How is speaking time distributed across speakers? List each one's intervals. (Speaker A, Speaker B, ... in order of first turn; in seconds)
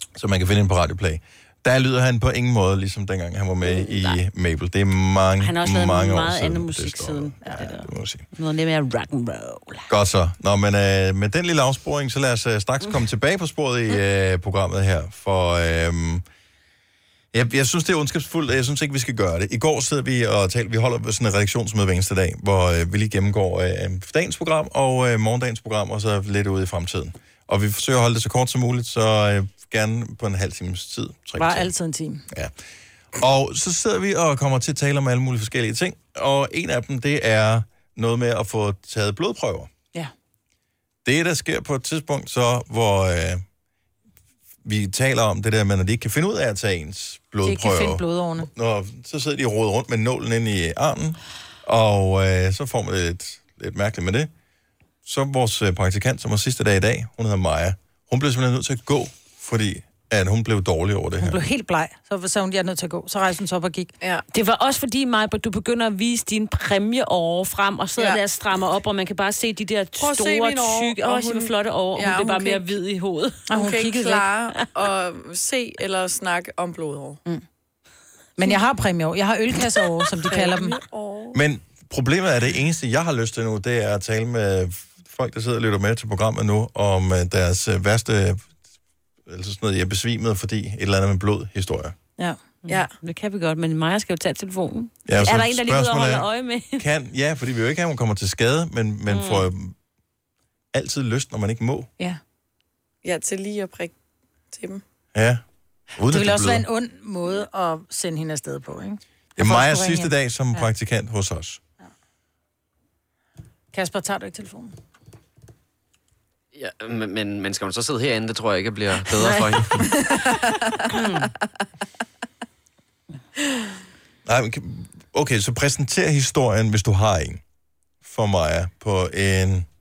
Speaker A: 0.2-8.3, 9.9-16.2, 17.3-31.7, 33.2-39.7, 41.0-43.4, 44.6-54.3, 55.0-61.4, 81.3-88.5, 89.2-91.9, 95.1-99.8, 100.7-101.9, 105.1-105.4, 106.0-106.7, 109.4-111.6, 124.3-127.4, 128.0-129.7
Speaker B: 3.7-4.2, 5.4-9.9, 64.3-73.5, 92.7-96.8, 99.1-99.5, 120.9-121.3
Speaker C: 31.4-32.2, 47.5-48.5, 61.2-63.9, 73.5-74.2, 78.4-80.8, 106.1-110.6, 113.7-114.8
Speaker D: 70.0-72.8, 73.5-77.2, 80.3-81.4, 103.0-103.9, 104.5-104.8, 119.8-120.9
Speaker E: 116.5-119.9